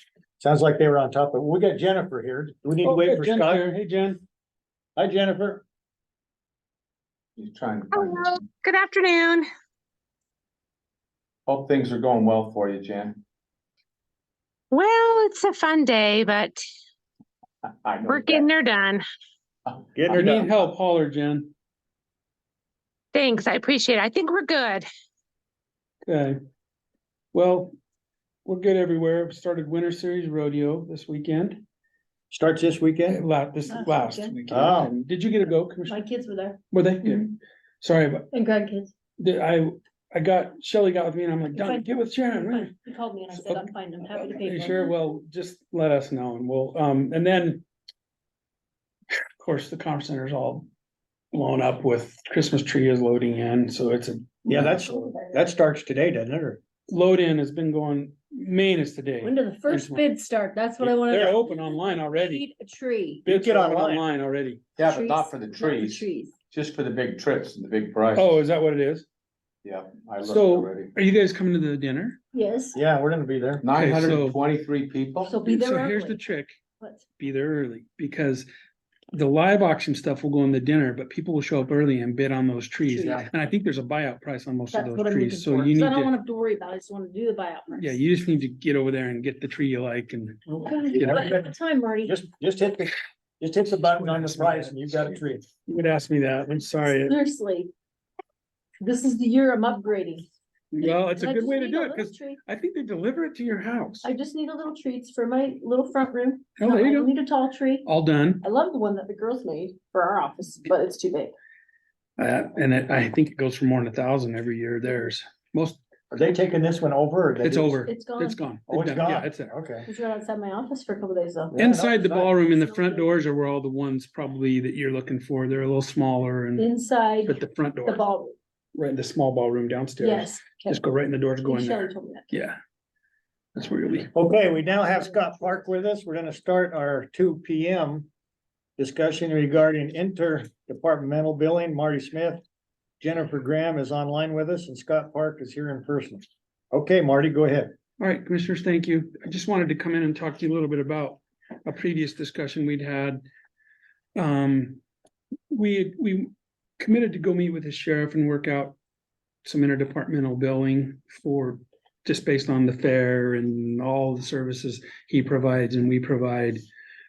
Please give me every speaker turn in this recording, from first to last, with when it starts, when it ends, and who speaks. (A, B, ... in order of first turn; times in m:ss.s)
0:00.4-0:03.7 A
0:02.8-0:04.2 B
0:05.0-0:05.6 A
0:07.4-0:08.4 C
0:07.9-0:08.7 D
0:11.5-0:13.2 C
0:14.7-0:15.0 D
0:17.8-0:18.5 C
0:18.4-0:19.0 D
0:19.9-0:20.5 A
0:20.1-0:21.5 B
0:23.1-0:24.9 D
0:26.0-0:26.4 B
0:27.3-0:27.7 B
0:28.4-0:31.6 B
0:32.3-0:33.2 A
0:33.1-0:36.0 B
0:33.7-0:34.3 E
0:34.5-0:34.9 A
0:35.8-0:37.2 E
0:36.7-0:38.3 B
0:38.3-0:38.9 E
0:39.2-0:42.7 B
0:41.5-0:44.9 E
0:43.3-0:47.6 B
0:49.4-0:50.7 B
0:51.3-0:54.8 B
0:54.5-0:56.6 A
0:54.9-0:55.4 E
0:56.9-1:00.0 B
0:59.2-1:03.2 E
1:00.8-1:02.4 B
1:03.2-1:04.0 A
1:03.2-1:04.6 B
1:04.8-1:08.4 C
1:04.8-1:06.3 E
1:08.2-1:09.1 B
1:09.6-1:10.9 C
1:10.2-1:12.2 B
1:12.3-1:12.8 E
1:12.7-1:13.6 A
1:13.6-1:15.3 C
1:13.7-1:14.4 B
1:15.2-1:16.2 E
1:15.4-1:16.6 B
1:17.2-1:18.5 B
1:19.1-1:26.1 B
1:22.9-1:23.2 E
1:23.0-1:23.2 A
1:24.7-1:28.0 E
1:27.8-1:31.4 B
1:30.6-1:32.2 E
1:30.9-1:31.5 A
1:32.0-1:35.4 A
1:33.7-1:37.2 B
1:36.9-1:37.7 E
1:38.8-1:40.3 E
1:40.7-1:44.1 B
1:40.8-1:42.4 E
1:44.0-1:47.9 E
1:46.6-1:47.1 B
1:47.8-1:48.4 B
1:48.4-1:51.3 E
1:52.2-1:55.8 B
1:56.1-1:57.8 A
1:57.4-1:59.5 B
1:57.8-1:58.4 E
1:58.7-1:59.9 A
1:59.9-2:01.5 E
2:01.5-2:02.3 A
2:01.5-2:06.7 B
2:02.4-2:03.1 E
2:06.6-2:08.3 E
2:07.2-2:08.0 B
2:08.7-2:12.6 B
2:10.0-2:10.8 E
2:11.4-2:12.3 E
2:13.5-2:14.1 B
2:14.1-2:18.1 A
2:14.7-2:15.1 E
2:18.8-2:22.4 A
2:23.0-2:27.7 A
2:28.0-2:33.2 B
2:34.2-2:34.8 B
2:35.5-2:38.8 B
2:39.4-2:46.6 B